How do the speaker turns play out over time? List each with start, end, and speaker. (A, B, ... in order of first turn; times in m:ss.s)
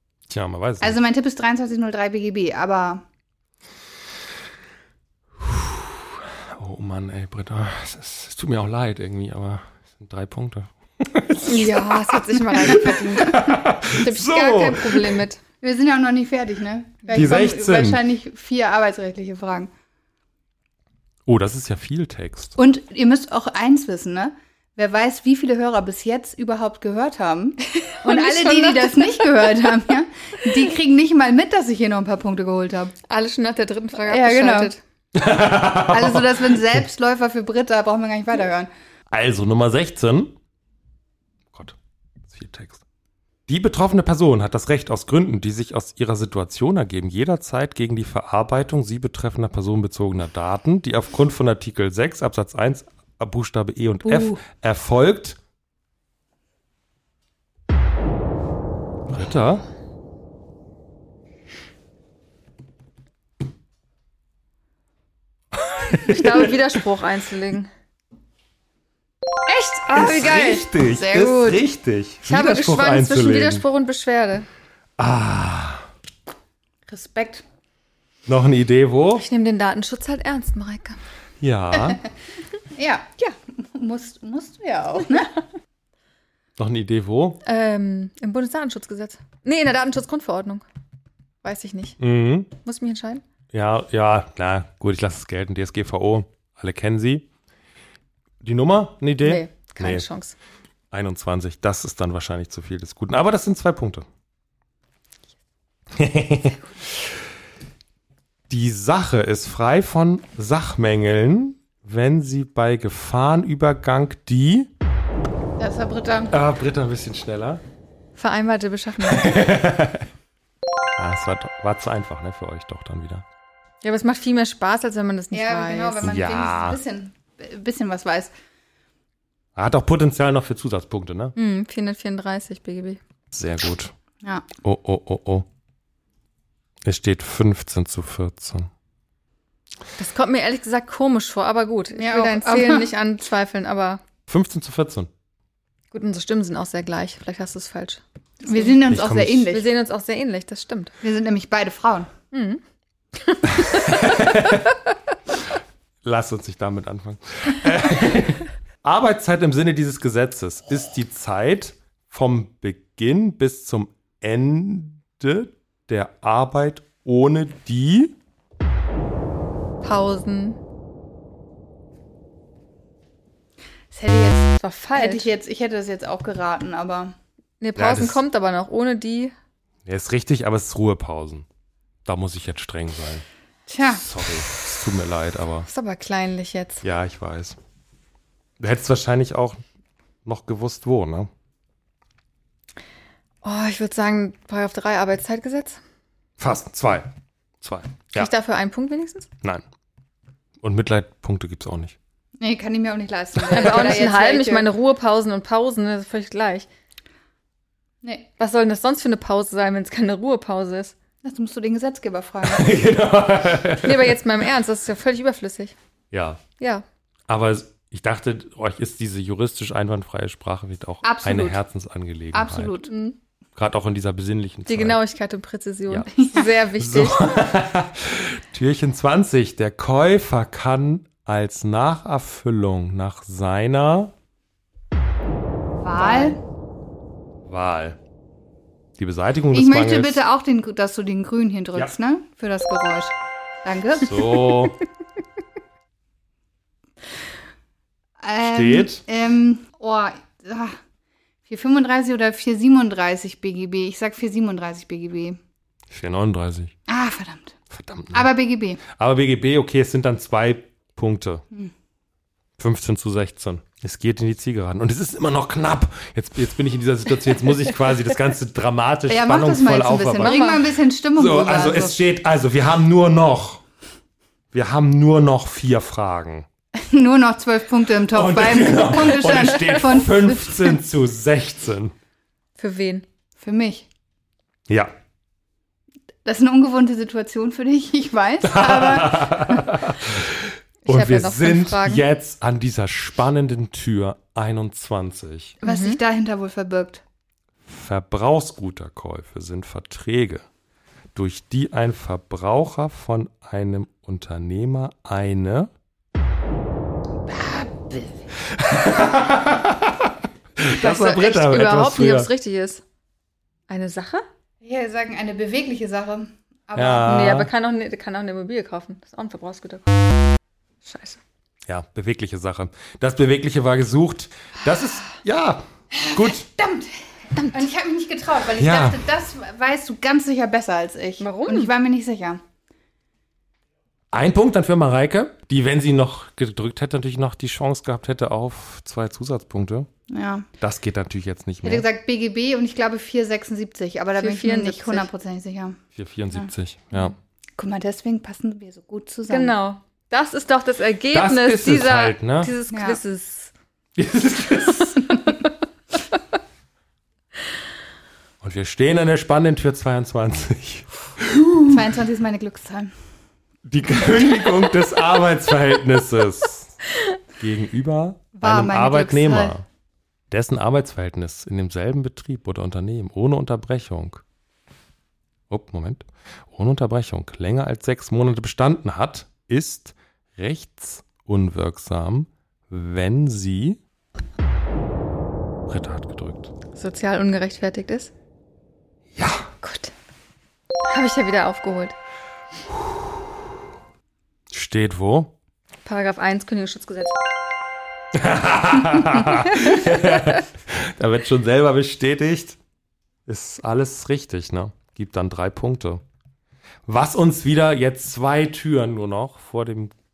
0:00.3-0:01.0 A
0:00.8-0:03.0 B
0:05.4-0:15.2 A
0:11.4-0:15.4 C
0:15.6-0:19.7 B
0:17.1-0:17.4 C
0:17.1-0:18.0 A
0:21.3-0:22.6 A
0:22.6-0:33.0 B
0:27.7-0:29.7 C
0:33.1-0:34.8 C
0:34.1-0:34.7 B
0:35.2-0:36.8 A
0:35.9-0:38.7 B
0:39.1-0:40.3 A
0:42.3-0:42.8 A
0:43.5-0:55.4 A
0:54.1-0:54.4 B
0:59.1-0:59.6 A
1:05.5-1:06.6 A
1:06.0-1:07.7 C
1:09.5-1:10.6 C
1:09.9-1:13.6 A
1:10.0-1:11.6 B
1:12.2-1:14.5 C
1:15.0-1:15.8 A
1:16.9-1:17.4 B
1:18.3-1:19.2 A
1:19.2-1:21.0 C
1:21.4-1:22.0 A
1:22.8-1:25.4 B
1:26.6-1:27.4 A
1:27.4-1:30.6 C
1:31.4-1:32.0 C
1:32.0-1:32.5 A
1:32.5-1:33.2 C
1:33.5-1:37.3 A
1:38.4-1:40.1 A
1:39.2-1:40.4 C
1:40.9-1:44.1 A
1:46.0-1:47.0 A
1:48.5-1:54.7 A
1:55.6-1:56.3 B
1:56.3-1:57.6 A
1:58.2-1:59.5 C
1:59.1-2:00.1 A
2:01.0-2:03.2 A
2:03.8-2:06.1 C
2:05.3-2:08.3 B
2:06.0-2:06.8 A
2:09.6-2:11.4 A
2:11.4-2:13.0 C
2:13.3-2:13.9 A
2:14.6-2:15.5 A
2:16.8-2:18.7 A
2:20.0-2:24.0 C
2:22.0-2:22.9 B
2:24.3-2:25.1 A
2:25.9-2:28.8 C
2:28.4-2:29.7 B
2:28.9-2:29.5 A
2:29.5-2:30.9 C
2:31.0-2:32.1 B
2:32.3-2:32.6 C
2:33.2-2:34.4 C
2:33.5-2:34.8 A
2:36.0-2:48.1 A
2:49.8-2:50.6 C
2:53.9-2:57.2 B
2:54.6-2:55.3 C
2:57.6-2:59.3 C
2:57.8-2:58.2 A
2:59.9-3:01.5 A
3:02.1-3:03.2 A
3:03.7-3:04.0 B
3:04.0-3:05.7 A
3:05.7-3:06.8 C
3:06.8-3:07.6 A
3:08.6-3:09.6 A
3:10.2-3:11.3 A
3:13.4-3:15.8 C
3:16.4-3:18.3 A
3:18.2-3:19.3 C
3:20.6-3:22.0 A
3:22.4-3:24.7 B
3:23.5-3:26.7 C
3:28.0-3:28.3 B
3:28.4-3:30.9 C
3:31.2-3:32.9 B
3:32.4-3:34.2 A
3:33.8-3:35.7 C
3:36.1-3:36.4 A
3:36.6-3:36.8 C
3:37.3-3:42.8 A
3:41.0-3:41.6 B
3:42.3-3:42.9 B
3:42.9-3:43.2 C
3:43.6-3:45.0 A
3:44.7-3:47.4 C
3:46.2-3:46.5 B
3:46.8-3:54.1 A
3:55.8-3:56.4 B
3:56.0-3:56.4 C
3:57.4-3:58.0 A
3:59.0-4:00.2 A
3:59.5-4:04.3 B
4:04.0-4:04.8 A
4:08.2-4:10.8 B
4:08.4-4:09.0 A
4:11.5-4:15.4 B
4:15.9-4:16.7 A
4:16.9-4:17.6 B
4:17.7-4:18.3 A
4:18.1-4:18.8 B
4:18.8-4:21.4 A
4:22.6-4:30.4 A
4:29.1-4:32.0 B
4:30.2-4:30.7 C
4:31.2-4:33.6 A
4:34.5-4:36.5 A
4:36.8-4:40.8 B
4:38.1-4:41.9 A
4:42.6-4:43.1 C
4:43.4-4:43.9 B
4:46.2-4:49.7 B
4:48.4-4:55.6 A
4:50.8-4:52.0 C
4:55.6-4:57.0 B
4:55.6-4:56.0 C
4:57.7-5:00.4 A
5:01.2-5:05.7 A
5:07.3-5:08.1 B
5:08.4-5:12.3 A
5:10.8-5:12.8 C
5:13.7-5:14.3 C
5:14.6-5:17.4 B
5:16.8-5:17.5 A
5:17.0-5:19.9 C
5:20.8-5:21.2 C
5:21.7-5:26.5 A
5:26.0-5:32.4 B
5:28.6-5:29.0 A
5:31.2-5:31.7 C
5:34.1-5:39.9 A
5:40.1-5:40.5 B
5:40.6-5:41.9 A
5:41.6-5:45.8 B
5:44.2-5:45.1 C
5:46.0-5:47.1 A
5:47.6-5:49.5 B
5:49.3-5:53.5 C
5:51.1-5:52.5 A
5:52.7-5:53.0 B
5:54.0-5:55.2 A
5:58.4-6:01.8 A
6:01.7-6:02.9 B
6:03.7-6:06.8 A
6:07.4-6:09.6 A
6:08.4-6:09.5 B
6:10.3-6:14.2 A
6:15.5-6:23.8 A
6:25.7-6:26.5 A
6:26.8-6:28.1 C
6:29.2-6:29.5 A
6:29.6-6:29.9 C
6:30.8-6:32.0 C
6:34.5-6:35.3 A
6:35.8-6:37.2 C
6:38.1-6:42.6 A
6:39.5-6:40.4 C
6:43.3-6:46.0 A
6:46.9-6:49.9 A